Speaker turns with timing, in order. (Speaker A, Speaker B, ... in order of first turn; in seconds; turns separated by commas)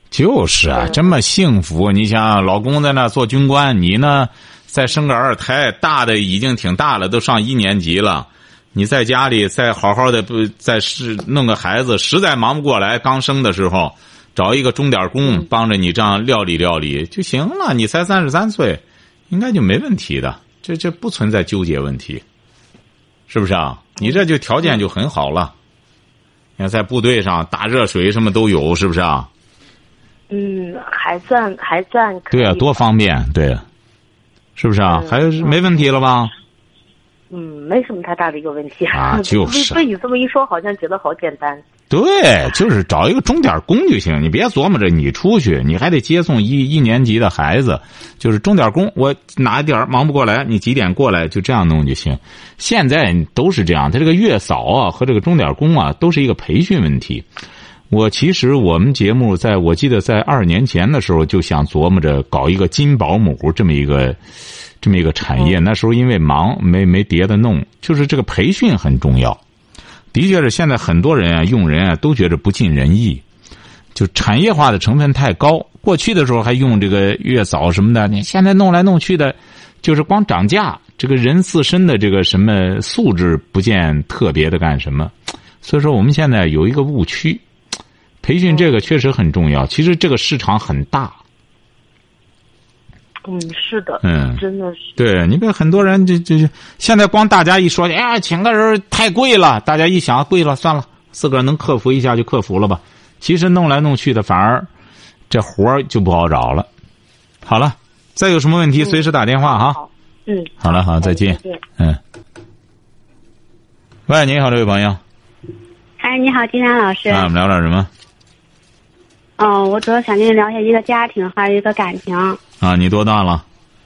Speaker A: 0.1-22.2, Speaker B: 0.7-1.1, Speaker A: 23.3-25.5, Speaker A: 26.6-29.3, Speaker B: 30.3-32.8, Speaker A: 32.3-33.6, Speaker A: 34.5-36.3, Speaker B: 34.8-35.6, Speaker B: 37.3-41.6, Speaker A: 38.9-39.8, Speaker A: 41.9-57.2, Speaker A: 57.9-64.2, Speaker A: 64.8-69.4, Speaker A: 70.1-73.2, Speaker A: 73.9-87.4, Speaker A: 88.2-91.2, Speaker B: 93.2-94.9, Speaker A: 94.0-94.4, Speaker A: 95.0-104.7, Speaker A: 105.3-106.7, Speaker A: 107.4-109.8, Speaker B: 109.0-111.6, Speaker A: 110.6-112.0, Speaker A: 114.1-115.0, Speaker C: 116.0-117.3, Speaker A: 117.1-117.9, Speaker C: 119.4-122.4, Speaker A: 122.6-123.4